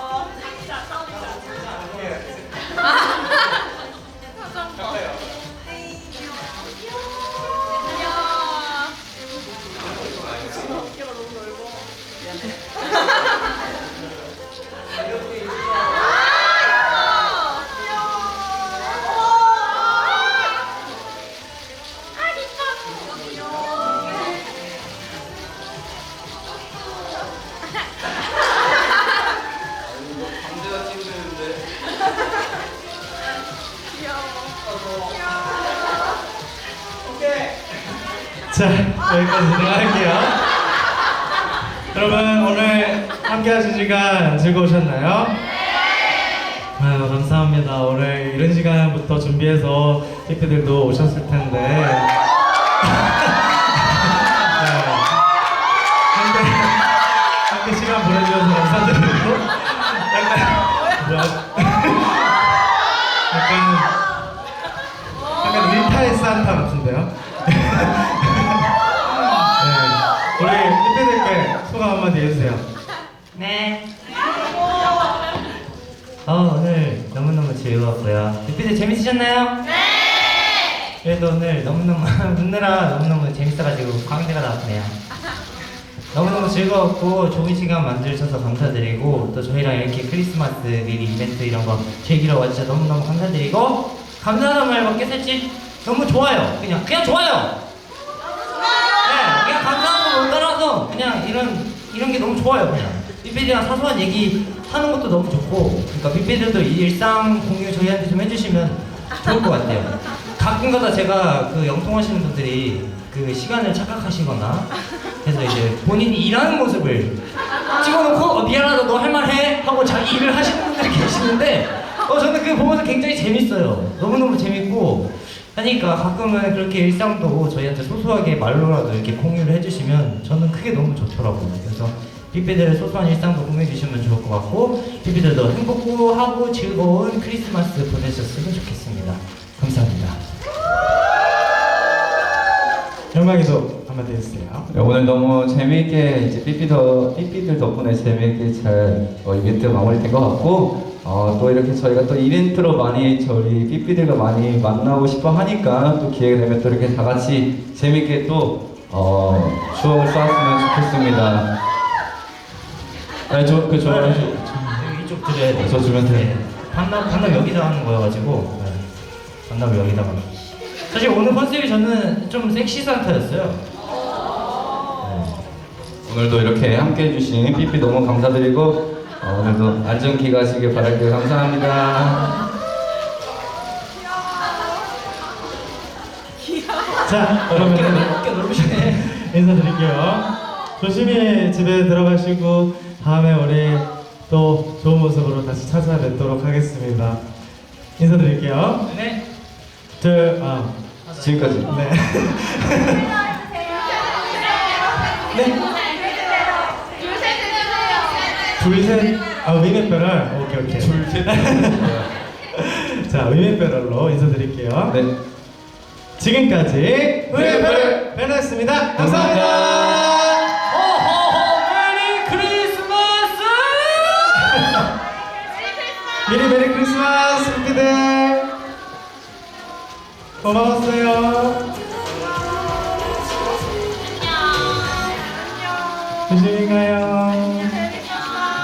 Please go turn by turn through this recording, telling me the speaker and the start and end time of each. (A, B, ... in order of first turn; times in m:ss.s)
0:30.2-0:31.3 A
0:38.5-0:40.4 B
0:41.9-0:45.3 B
0:46.8-0:52.1 B
0:52.8-0:55.1 B
0:56.1-1:02.3 B
1:03.3-1:03.9 B
1:05.4-1:08.7 B
1:09.6-1:12.6 B
1:13.3-1:13.8 C
1:16.2-1:19.5 C
1:21.0-1:24.9 C
1:26.1-1:37.5 C
1:39.0-1:54.7 C
1:55.2-2:20.2 C
2:23.1-2:24.7 B
2:24.7-2:41.5 A
2:43.3-2:44.5 A
2:43.8-2:48.8 C
2:45.5-2:46.3 A
2:49.4-2:50.2 C
2:50.9-2:53.6 C
2:55.0-2:55.4 C
2:56.0-3:02.4 A
3:07.0-3:10.3 B
3:07.5-3:09.1 C
3:10.8-3:17.2 B
3:18.0-3:18.8 B
3:18.9-3:19.2 C
3:20.0-3:20.7 B
3:21.0-3:21.6 C
3:21.2-3:21.7 A
3:21.6-3:23.0 B
3:25.3-3:25.6 B
3:28.6-3:35.0 B
3:30.7-3:32.1 A
3:36.2-3:40.4 B
3:37.3-3:38.0 A
3:39.0-3:40.0 A
3:40.7-3:44.4 C
3:44.5-3:44.9 B
3:46.2-3:48.5 B
3:50.4-3:51.6 B
3:56.3-3:57.9 B